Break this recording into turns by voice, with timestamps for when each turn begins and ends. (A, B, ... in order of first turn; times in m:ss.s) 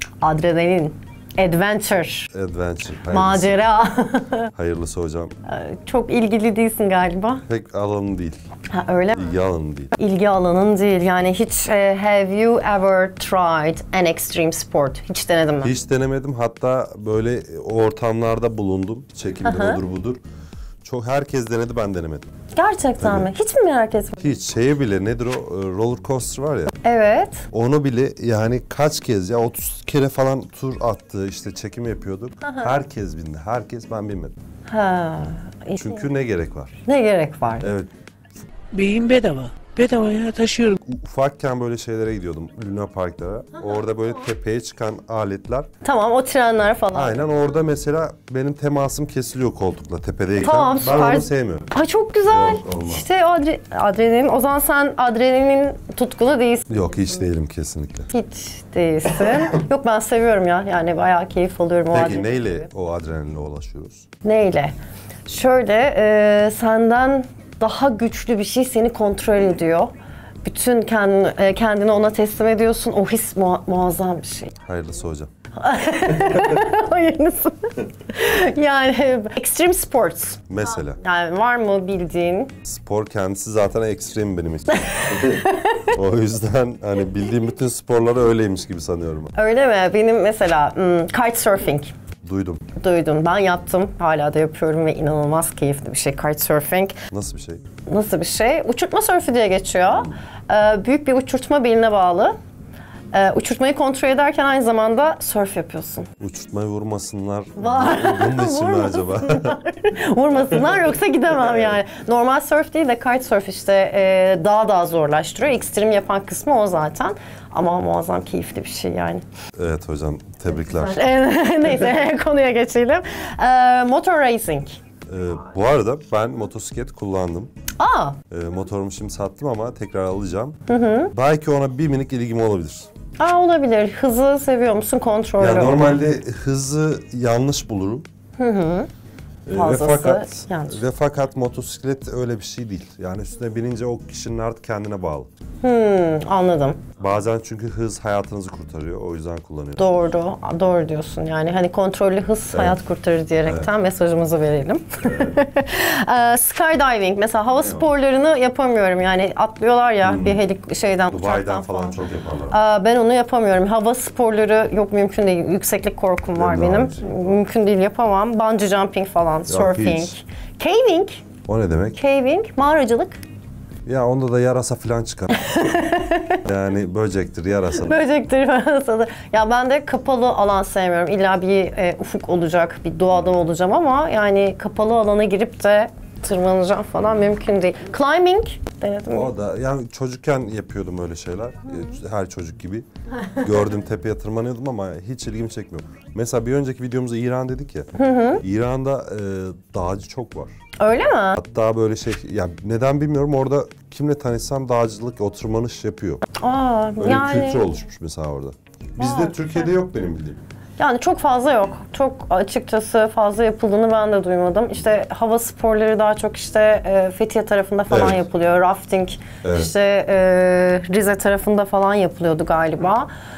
0:00.2-0:02.3 A
0:02.3-0:03.5 B
0:03.1-0:04.5 A
0:04.5-0:05.3 B
0:05.4-0:07.4 A
0:07.5-0:08.4 B
0:08.7-0:09.3 A
0:09.1-0:09.9 B
0:09.9-0:15.7 A
0:15.6-0:20.2 B
0:19.4-0:19.8 A
0:20.8-0:22.2 B
0:22.5-0:24.2 A
0:23.0-0:23.3 B
0:24.2-0:26.7 B
0:26.8-0:27.5 A
0:27.5-0:34.3 B
0:32.4-0:32.7 A
0:34.6-0:36.0 A
0:35.8-0:36.8 B
0:36.8-0:37.6 A
0:37.6-0:37.9 B
0:38.7-0:40.8 C
0:40.8-0:45.7 B
0:45.8-0:47.3 A
0:46.9-0:51.7 B
0:50.4-0:56.7 A
0:52.2-0:53.0 B
0:56.7-0:58.1 B
0:58.1-1:02.7 A
1:01.9-1:04.0 B
1:04.2-1:04.7 A
1:05.2-1:09.9 A
1:10.4-1:14.5 A
1:14.6-1:15.3 B
1:15.6-1:22.5 A
1:16.1-1:16.5 B
1:20.5-1:21.0 B
1:22.6-1:29.3 B
1:24.7-1:25.9 A
1:29.3-1:31.9 A
1:32.2-1:32.6 B
1:32.8-1:37.0 A
1:37.1-1:37.6 B
1:37.8-1:42.3 A
1:43.1-1:46.1 A
1:46.2-1:49.6 B
1:47.6-1:59.2 A
1:59.6-2:01.1 B
2:00.5-2:04.8 A
2:05.1-2:07.5 B
2:07.8-2:08.2 A
2:08.3-2:10.6 B
2:10.7-2:11.1 A
2:11.1-2:12.9 B
2:13.2-2:16.0 A
2:15.4-2:18.1 B
2:18.4-2:18.9 A
2:19.4-2:25.3 B
2:19.5-2:20.8 A
2:25.6-2:26.9 A
2:27.0-2:29.8 B
2:29.8-2:42.0 A
2:32.5-2:32.8 B
2:35.0-2:35.4 B
2:37.6-2:37.9 B
2:40.0-2:40.4 B
2:41.1-2:42.6 B
2:42.5-2:51.2 A
2:46.3-2:47.3 B
2:49.5-2:50.1 B
2:51.4-2:52.0 B
2:52.0-2:53.2 A
2:53.8-2:55.4 B
2:55.3-2:56.4 A
2:56.4-2:58.0 B
2:57.7-3:09.3 A
3:09.1-3:12.9 B
3:13.4-3:17.9 B
3:17.9-3:18.4 A
3:18.4-3:20.5 B
3:20.8-3:21.4 A
3:21.4-3:26.2 B
3:26.3-3:27.6 A
3:27.0-3:30.4 B
3:29.0-3:29.7 A
3:30.8-3:43.1 A
3:37.9-3:38.2 B
3:39.4-3:39.7 B